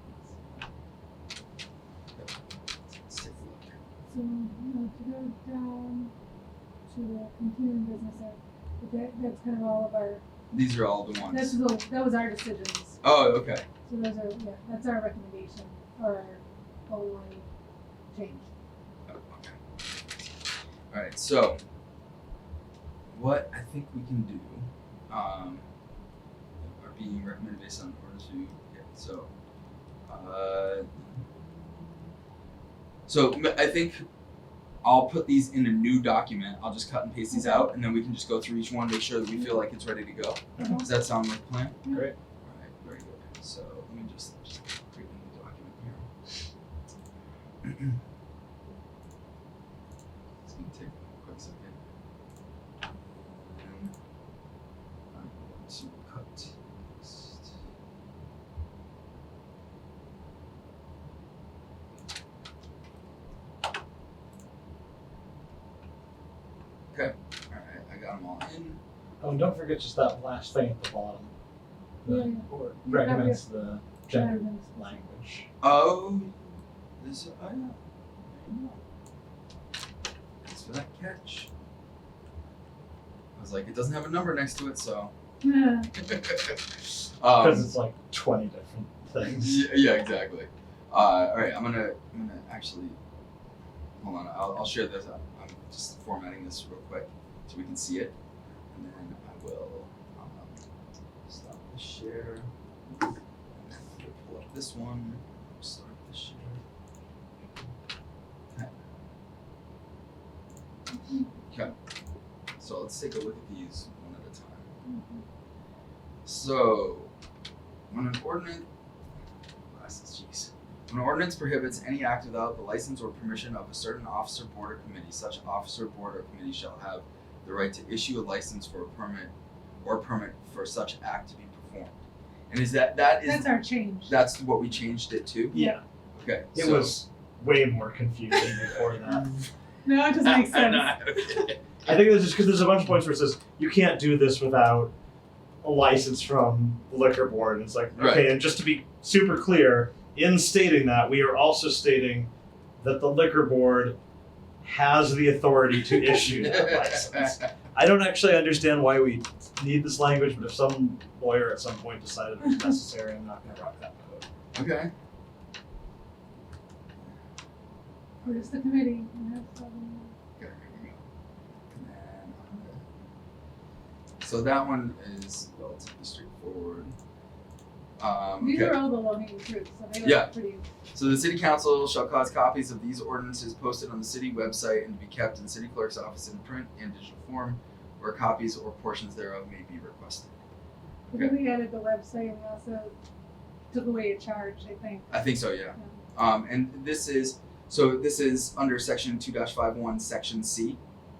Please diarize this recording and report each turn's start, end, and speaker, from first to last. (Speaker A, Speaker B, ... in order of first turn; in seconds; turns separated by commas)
Speaker A: 0.3-0.6, Speaker A: 2.1-3.8, Speaker B: 4.1-6.1, Speaker B: 6.9-10.2, Speaker A: 10.5-11.6, Speaker B: 11.2-13.0, Speaker A: 13.0-13.7, Speaker B: 13.9-17.4, Speaker B: 18.1-18.5, Speaker A: 19.1-20.3, Speaker A: 20.9-21.6, Speaker A: 23.1-25.6, Speaker A: 26.6-29.3, Speaker A: 30.1-32.0, Speaker A: 33.1-34.0, Speaker A: 34.8-41.8, Speaker B: 37.3-37.7, Speaker C: 41.9-42.1, Speaker A: 42.4-46.1, Speaker A: 47.6-48.0, Speaker A: 50.4-51.8, Speaker A: 53.1-53.9, Speaker A: 55.1-57.5, Speaker A: 66.9-68.8, Speaker C: 69.2-71.3, Speaker C: 72.0-75.5, Speaker B: 72.0-73.4, Speaker B: 74.0-75.0, Speaker A: 75.6-78.8, Speaker A: 80.4-81.5, Speaker A: 83.3-85.1, Speaker B: 85.4-85.9, Speaker A: 86.0-87.7, Speaker C: 87.3-89.7, Speaker A: 89.2-93.0, Speaker A: 94.0-98.1, Speaker A: 98.7-100.6, Speaker A: 101.2-106.6, Speaker A: 112.6-114.7, Speaker B: 114.8-115.2, Speaker A: 116.2-117.1, Speaker A: 117.9-118.7, Speaker A: 119.7-129.3, Speaker A: 129.8-132.0, Speaker A: 132.5-137.0, Speaker B: 133.2-134.2, Speaker B: 135.5-135.8, Speaker C: 136.5-139.3, Speaker A: 139.1-139.3, Speaker B: 139.8-141.4, Speaker A: 140.2-141.6, Speaker C: 141.8-144.9, Speaker C: 145.6-153.9, Speaker A: 148.0-148.3, Speaker C: 154.6-164.3, Speaker A: 156.4-157.3, Speaker A: 164.5-164.9, Speaker A: 168.2-168.5, Speaker B: 168.2-170.1, Speaker A: 170.3-171.0, Speaker A: 171.7-172.8, Speaker A: 174.2-176.9, Speaker A: 178.0-178.8, Speaker B: 178.4-180.6, Speaker A: 180.0-180.3, Speaker A: 180.9-190.3, Speaker B: 191.1-192.9, Speaker A: 191.1-191.4, Speaker B: 193.7-195.8, Speaker A: 195.1-200.8